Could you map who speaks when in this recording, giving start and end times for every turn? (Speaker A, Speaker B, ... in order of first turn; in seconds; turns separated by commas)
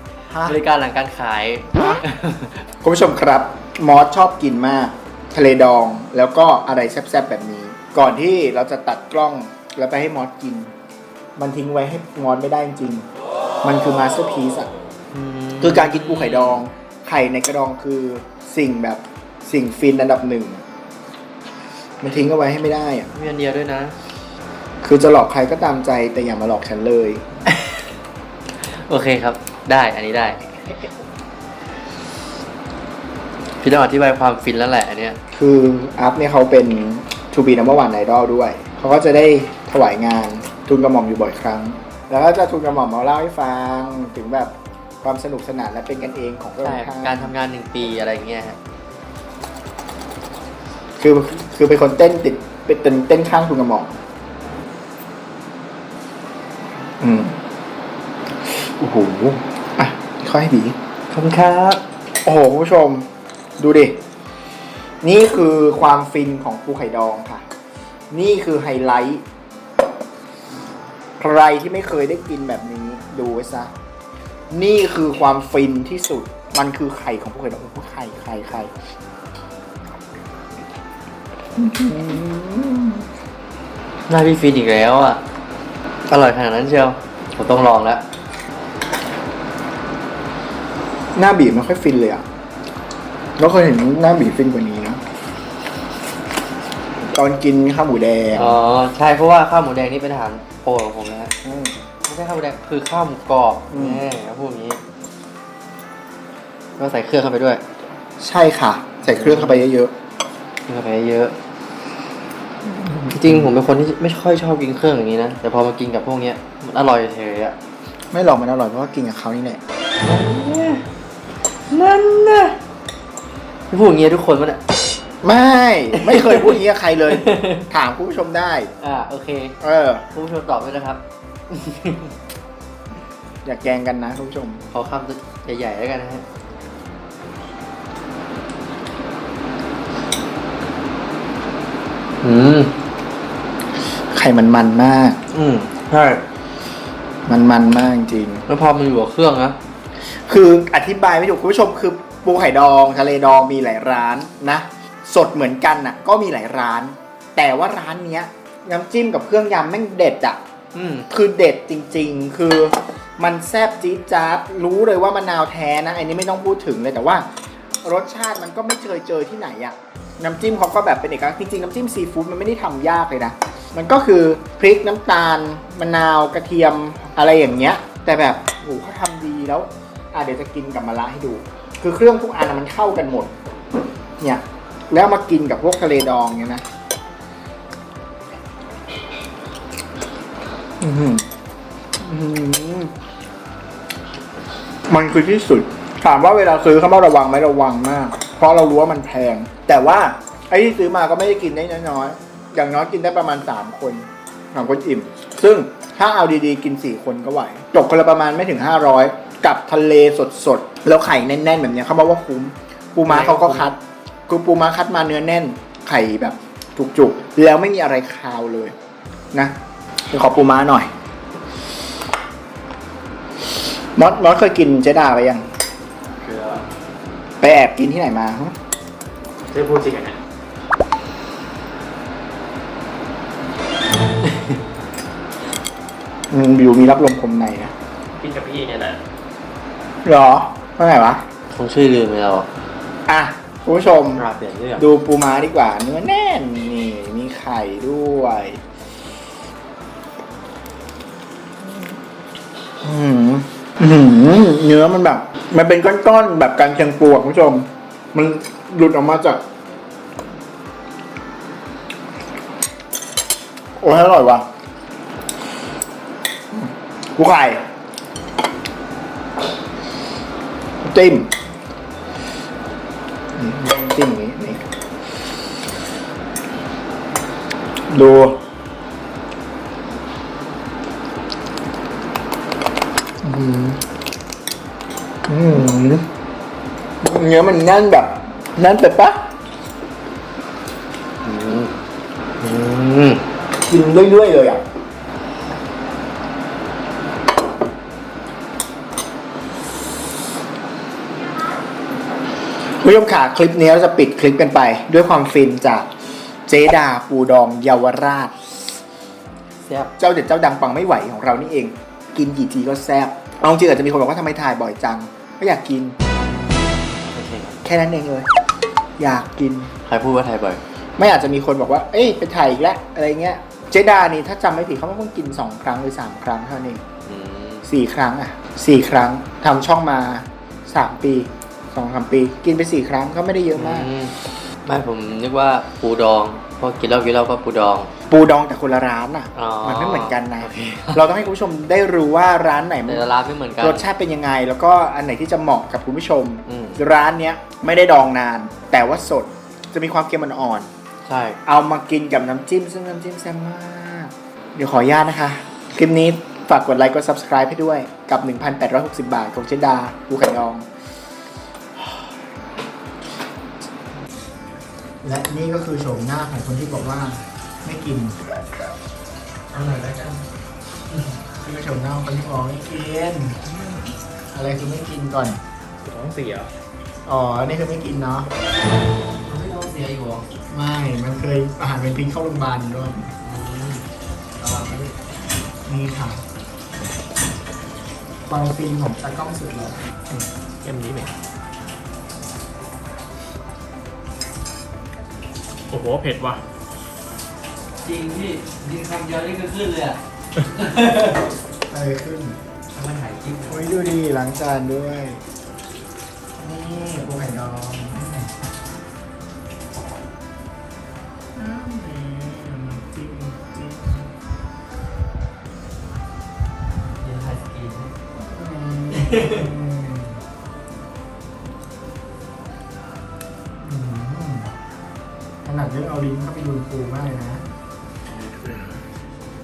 Speaker A: 0.3-0.6, Speaker B: 0.5-2.7, Speaker A: 2.8-10.7, Speaker A: 11.4-13.1, Speaker A: 13.6-14.7, Speaker B: 15.1-16.6, Speaker A: 15.6-20.6, Speaker A: 22.0-23.1, Speaker B: 23.1-24.0, Speaker A: 24.8-27.2, Speaker B: 27.5-27.9, Speaker B: 28.6-30.4, Speaker B: 33.6-35.2, Speaker A: 35.3-47.3, Speaker B: 46.6-48.6, Speaker A: 51.0-54.0, Speaker A: 57.0-57.4, Speaker A: 58.5-60.8, Speaker B: 61.1-61.8, Speaker A: 62.2-64.0, Speaker A: 65.0-67.4, Speaker A: 68.1-69.2, Speaker A: 71.2-73.7, Speaker A: 74.5-78.7, Speaker A: 81.6-83.1, Speaker B: 84.1-85.2, Speaker B: 86.1-88.0, Speaker A: 91.2-92.2, Speaker A: 93.4-95.0, Speaker A: 97.0-98.6, Speaker B: 98.4-101.3, Speaker A: 101.4-101.7, Speaker B: 102.1-104.8, Speaker A: 103.7-104.0, Speaker B: 106.8-107.6, Speaker A: 108.2-109.9, Speaker B: 109.1-109.7, Speaker B: 110.7-111.4, Speaker A: 112.7-113.5, Speaker B: 113.1-117.6, Speaker A: 118.1-119.6, Speaker B: 120.0-120.9, Speaker B: 121.7-122.6, Speaker B: 123.7-124.6, Speaker A: 125.2-128.7, Speaker B: 126.0-127.6, Speaker B: 128.8-129.6, Speaker A: 129.6-130.1, Speaker B: 130.1-132.2, Speaker A: 133.4-134.6, Speaker B: 134.7-136.2, Speaker B: 142.2-142.8, Speaker A: 144.1-145.2, Speaker B: 145.3-146.2, Speaker A: 147.3-148.4, Speaker B: 148.5-149.6, Speaker A: 150.0-160.4, Speaker B: 160.7-161.1, Speaker A: 161.1-167.3, Speaker A: 167.8-183.3, Speaker A: 184.2-186.6, Speaker A: 190.8-191.3, Speaker A: 192.0-192.9, Speaker A: 194.9-218.8, Speaker B: 213.1-213.7, Speaker A: 220.1-220.9, Speaker A: 224.0-225.5, Speaker B: 226.2-226.6, Speaker A: 227.4-228.5, Speaker C: 229.5-230.2, Speaker B: 234.2-234.6, Speaker A: 236.3-237.7, Speaker C: 238.1-239.0, Speaker A: 240.1-241.2, Speaker B: 241.5-242.5, Speaker A: 243.1-244.2, Speaker B: 244.2-244.8, Speaker A: 244.8-248.6, Speaker A: 251.7-251.9, Speaker A: 252.8-259.4, Speaker A: 263.8-264.5, Speaker A: 266.5-267.6, Speaker A: 270.8-271.3, Speaker A: 273.4-274.7, Speaker A: 277.9-278.4, Speaker A: 283.2-283.8, Speaker A: 285.3-286.1, Speaker A: 287.0-289.3, Speaker B: 291.2-291.7, Speaker B: 292.4-293.2, Speaker A: 293.7-294.6, Speaker A: 302.8-305.9, Speaker A: 306.5-308.4, Speaker B: 309.6-309.9, Speaker A: 310.0-316.0, Speaker B: 317.1-317.6, Speaker A: 317.6-318.3, Speaker A: 319.0-319.7, Speaker B: 319.9-320.6, Speaker A: 321.0-326.9, Speaker B: 327.1-327.6, Speaker A: 327.6-333.9, Speaker B: 333.5-337.9, Speaker A: 338.1-343.1, Speaker B: 339.4-341.1, Speaker B: 342.9-343.9, Speaker A: 343.6-350.7, Speaker B: 346.5-346.8, Speaker B: 351.1-351.4, Speaker A: 351.5-360.7, Speaker A: 365.0-368.2, Speaker B: 369.5-370.2, Speaker A: 371.4-373.4, Speaker A: 374.3-375.4, Speaker C: 375.8-376.5, Speaker A: 377.1-378.3, Speaker B: 379.2-380.3, Speaker A: 380.5-383.1, Speaker B: 383.2-383.9, Speaker B: 384.4-384.9, Speaker A: 385.7-386.2, Speaker A: 388.3-389.9, Speaker C: 390.6-391.1, Speaker C: 395.7-396.4, Speaker B: 397.8-401.3, Speaker A: 401.7-402.4, Speaker B: 402.7-403.7, Speaker A: 403.5-405.2, Speaker A: 406.4-408.3, Speaker A: 411.3-414.1, Speaker B: 417.0-417.9, Speaker A: 418.2-420.2, Speaker B: 418.9-419.5, Speaker A: 423.6-424.5, Speaker A: 425.4-427.4, Speaker B: 428.2-428.7